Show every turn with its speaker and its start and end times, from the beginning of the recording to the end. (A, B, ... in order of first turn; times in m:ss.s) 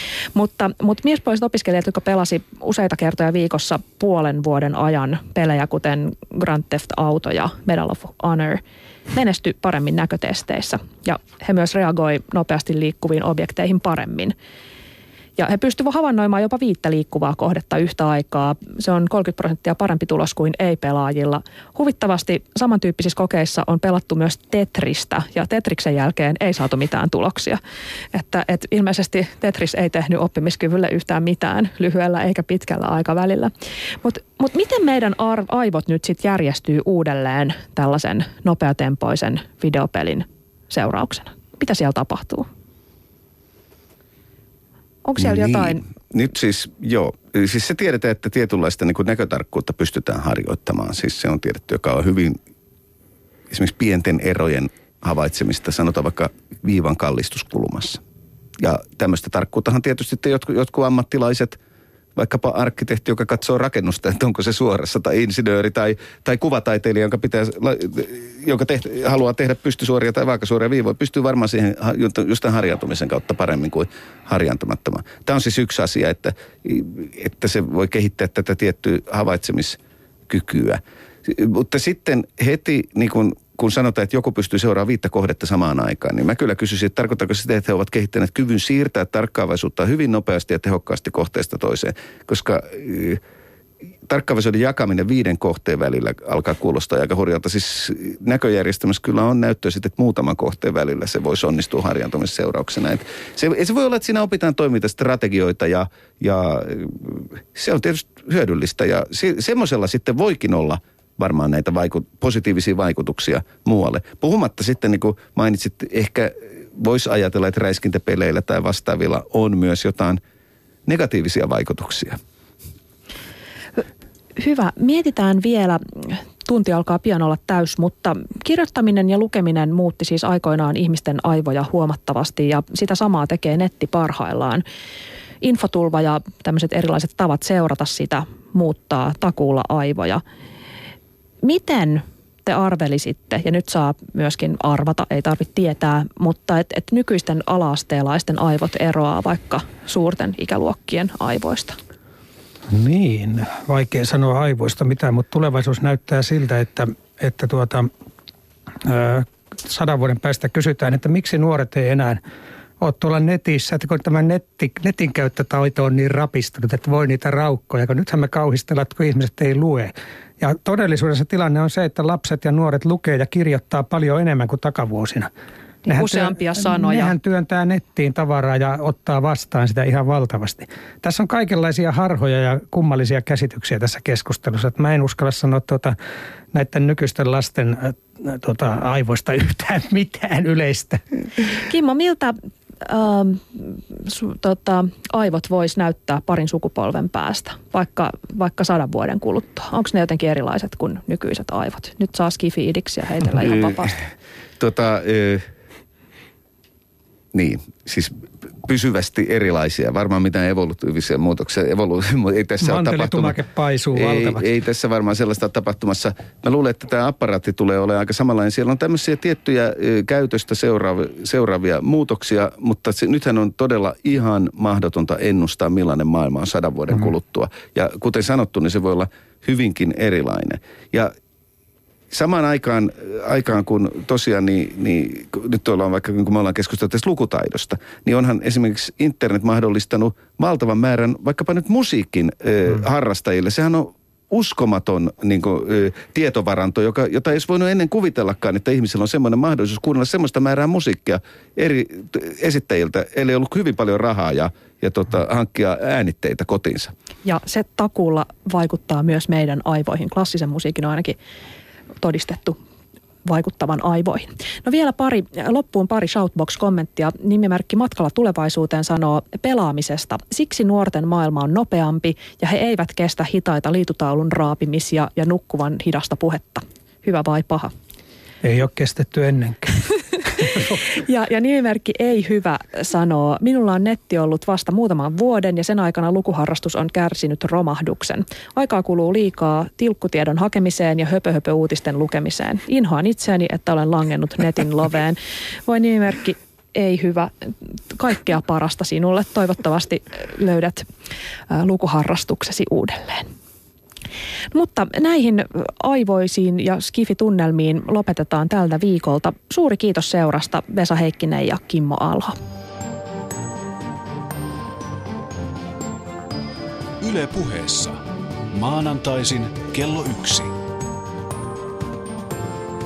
0:00.3-0:14.3 A
0:15.4-0:27.6 A
0:28.1-0:42.5 A
0:45.0-0:45.8 A
0:45.2-0:52.4 B
0:53.5-0:58.0 B
0:58.6-1:01.6 B
1:02.2-1:33.2 B
1:34.0-2:00.2 B
2:00.8-2:02.2 B
2:04.4-2:14.6 A
2:15.4-2:20.2 A
2:21.4-2:31.8 A
2:32.7-2:37.9 C
2:38.8-2:42.2 C
2:42.8-2:55.3 C
2:55.8-2:57.2 A
2:55.9-3:05.9 C
3:06.5-3:11.0 C
3:11.5-3:24.0 A
3:24.6-3:25.5 B
3:27.3-3:33.4 B
3:32.6-3:34.4 C
3:33.9-3:51.1 B
3:52.1-4:16.9 B
4:17.2-4:21.2 A
4:22.0-4:22.6 A
4:23.2-4:37.7 A
4:38.4-4:40.8 C
4:40.6-5:00.9 A
5:01.5-5:03.3 A
5:04.5-5:12.4 A
5:17.0-5:20.5 D